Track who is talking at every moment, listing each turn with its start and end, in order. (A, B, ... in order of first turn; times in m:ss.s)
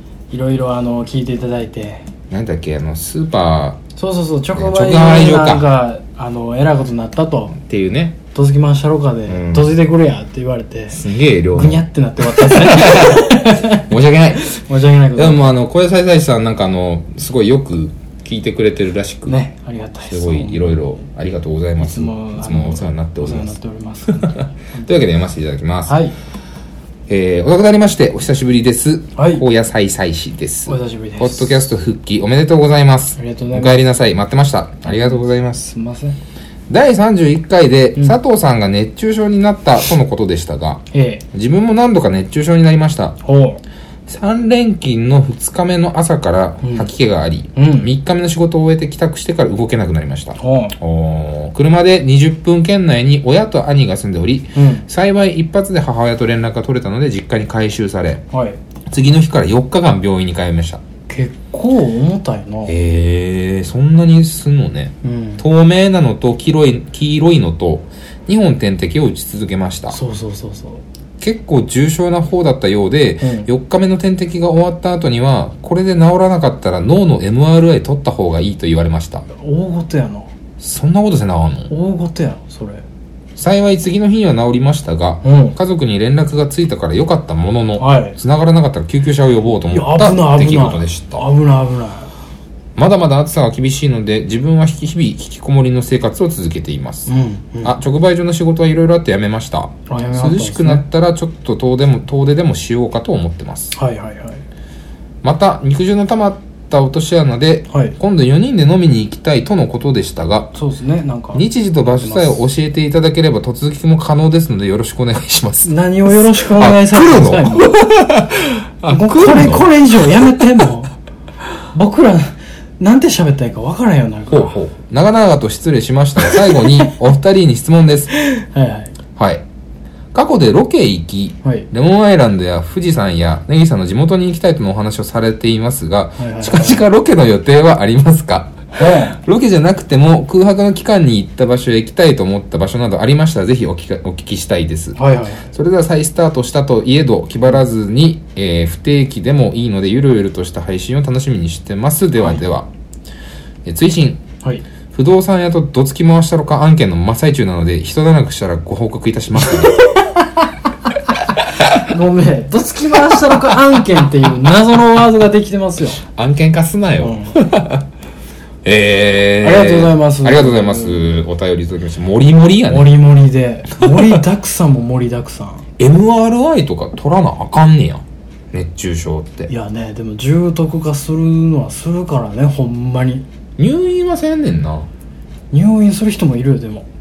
0:00.3-0:02.0 A
0:02.3-0:03.8 B
0:04.0-0:07.5 A
0:04.5-0:05.7 B
0:07.5-0:08.2 B
0:08.3-0:13.8 A
0:09.3-0:09.8 B
0:10.9-0:14.5 B
0:14.4-0:15.5 A
0:15.1-0:19.4 B
0:19.3-0:20.8 A
0:20.0-0:23.5 B
0:21.8-0:24.9 A
0:24.1-0:26.0 B
0:25.9-0:26.1 A
0:27.1-0:35.7 B
0:29.2-0:29.4 A
0:30.7-0:31.6 A
0:33.2-0:33.8 A
0:34.9-0:36.2 A
0:36.7-0:43.2 B
0:40.9-0:41.2 A
0:43.2-0:43.6 A
0:44.1-0:58.2 B
0:46.6-0:46.9 A
0:47.6-0:47.9 A
0:50.4-0:50.8 A
0:54.5-0:54.8 A
0:58.3-0:58.6 A
0:58.8-1:00.8 B
1:01.1-1:02.7 A
1:02.6-1:10.0 B
1:05.0-1:05.4 A
1:09.9-1:10.8 A
1:11.2-1:19.2 B
1:13.2-1:13.5 A
1:19.3-1:20.3 A
1:20.6-1:21.7 B
1:21.7-1:22.8 A
1:23.4-1:31.3 B
1:25.2-1:25.6 A
1:27.8-1:28.2 A
1:29.7-1:32.1 A
1:32.8-1:43.8 B
1:37.1-1:37.7 A
1:39.9-1:40.8 A
1:43.7-1:44.4 A
1:45.2-1:50.5 B
1:47.7-1:48.0 A
1:50.5-1:51.4 A
1:51.3-1:59.7 B
1:52.0-1:52.4 A
1:55.6-1:57.8 A
1:58.9-2:00.9 A
2:01.6-2:04.5 A
2:04.3-2:08.1 B
2:06.4-2:06.9 A
2:08.2-2:08.9 A
2:09.2-2:09.4 B
2:10.1-2:32.7 B
2:16.2-2:16.8 A
2:18.7-2:19.1 A
2:24.9-2:25.5 A
2:33.6-2:34.2 B
2:34.9-2:39.9 B
2:39.6-2:40.4 A
2:41.7-2:46.0 A
2:46.0-2:47.8 B
2:47.0-2:47.3 A
2:48.6-2:52.9 B
2:49.4-2:51.2 A
2:52.7-2:55.6 A
2:53.7-2:54.1 B
2:55.8-2:59.5 B
2:59.5-3:03.2 A
3:03.6-3:04.9 B
3:05.5-3:06.8 A